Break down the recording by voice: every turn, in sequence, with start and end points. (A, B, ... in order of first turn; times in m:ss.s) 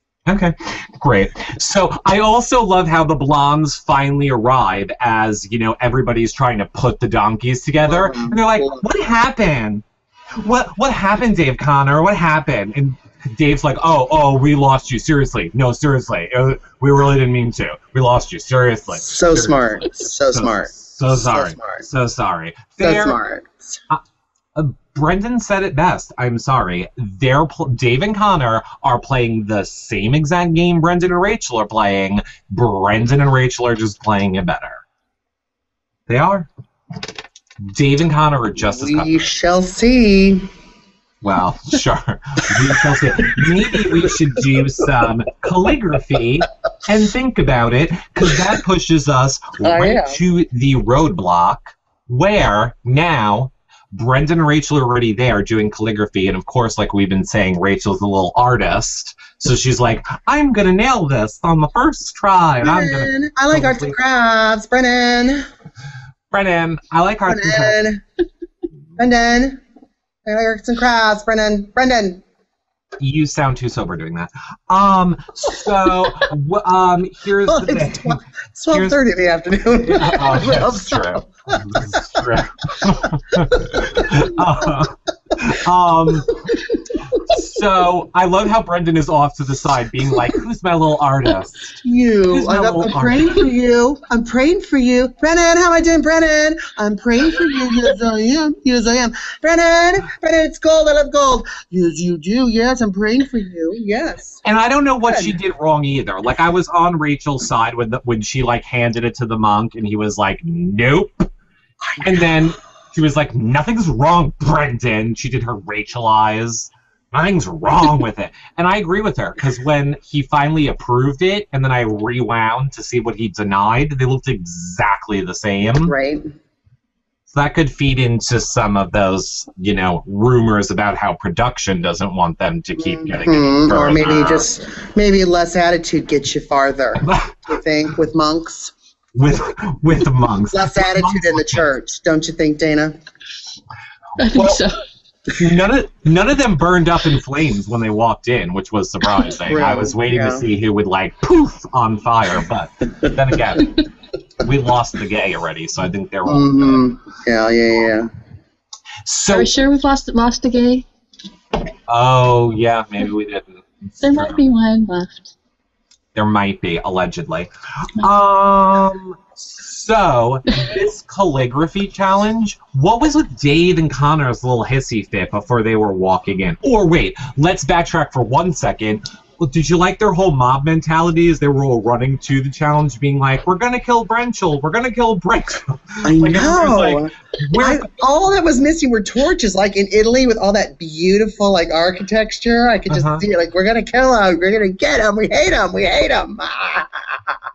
0:00.3-0:09.8 A
0:07.9-0:08.8 B
0:10.4-0:23.2 A
0:18.9-0:21.8 B
0:22.8-0:23.8 B
0:24.6-0:34.8 A
0:36.1-0:36.5 A
0:37.6-0:39.3 A
0:38.7-0:40.5 B
0:41.2-1:04.0 A
0:49.6-0:50.2 B
1:02.6-1:05.5 B
1:06.3-1:07.8 A
1:07.3-1:08.0 B
1:09.0-1:09.6 B
1:10.3-1:12.2 B
1:13.0-1:19.0 A
1:17.5-1:21.9 B
1:19.8-1:26.4 A
1:23.0-1:24.3 B
1:26.5-1:26.8 B
1:27.1-1:31.8 A
1:31.8-1:44.4 B
1:32.3-1:33.5 A
1:44.4-1:51.3 A
1:45.0-1:45.4 B
1:51.9-1:52.4 B
1:52.0-2:06.0 A
2:05.9-2:06.3 B
2:07.3-2:14.5 A
2:12.8-2:18.7 B
2:17.0-2:17.5 A
2:19.2-2:21.7 A
2:20.5-2:23.0 B
2:24.2-2:24.6 A
2:24.2-2:24.7 C
2:25.3-2:33.8 A
2:29.4-2:30.4 B
2:34.4-2:36.8 A
2:36.3-2:38.1 B
2:39.0-2:39.5 A
2:39.3-2:40.9 C
2:41.9-2:44.4 A
2:44.0-2:45.3 C
2:46.2-3:07.9 A
3:06.0-3:17.4 B
3:12.9-3:13.2 A